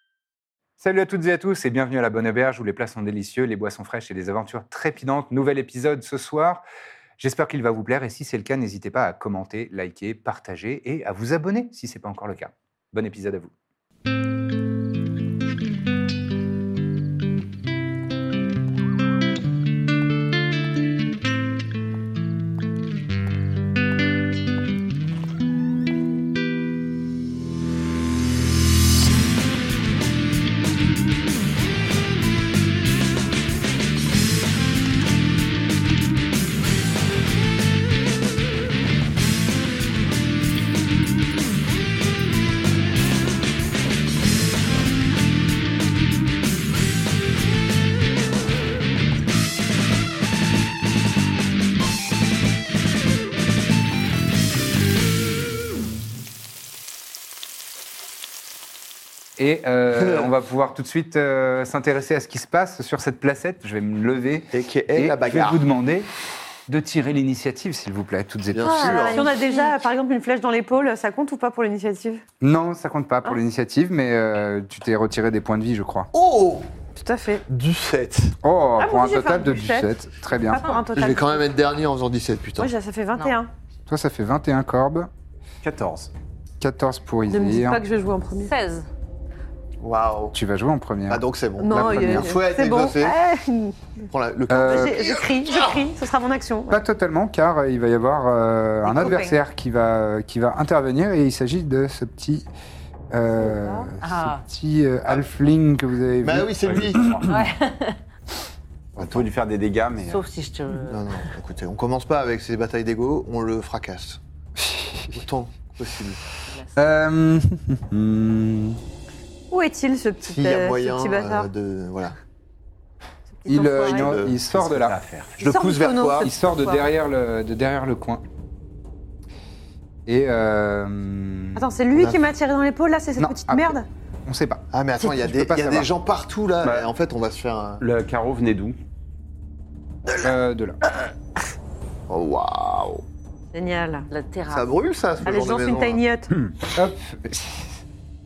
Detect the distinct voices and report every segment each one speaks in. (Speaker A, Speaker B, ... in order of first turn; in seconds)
Speaker A: 0.8-6.6, 7.2-13.5, 59.4-66.1, 66.7-69.2, 72.4-76.1, 78.4-80.7, 83.9-85.1, 86.6-87.8, 90.3-92.3, 94.5-95.1, 96.7-102.5, 103.1-107.3, 114.6-115.2, 116.7-118.8, 123.5-125.0, 126.2-128.2, 130.1-131.8, 133.2-135.9, 140.2-140.8, 146.7-147.8
Speaker B: 64.5-65.6, 68.5-69.5, 76.1-76.7, 77.5-78.4, 80.9-82.7, 89.8-90.4, 91.1-93.2, 94.1-95.8, 106.2-107.1, 109.0-109.2, 110.7-114.2, 115.1-116.2, 120.2-122.2, 123.8-124.4, 125.4-126.3, 131.9-132.2, 134.7-137.8, 142.1-143.0, 144.5-146.0
Speaker C: 68.6-69.7, 80.5-80.8, 88.4-88.9, 104.0-104.4, 107.2-108.0, 110.0-111.3, 116.5-116.7, 144.1-144.7
Speaker D: 68.6-72.2, 77.0-77.4, 78.8-79.9, 80.4-81.4, 82.6-83.5, 87.3-88.5, 91.6-94.1, 94.6-96.8, 98.9-99.4, 103.4-103.9, 119.5-121.5, 123.4-124.2, 125.4-126.8, 131.6-133.9, 143.5-144.1, 145.2-146.4
Speaker E: 85.6-86.1, 106.6-107.3, 109.0-110.2, 124.5-125.4, 136.6-136.9, 137.8-138.8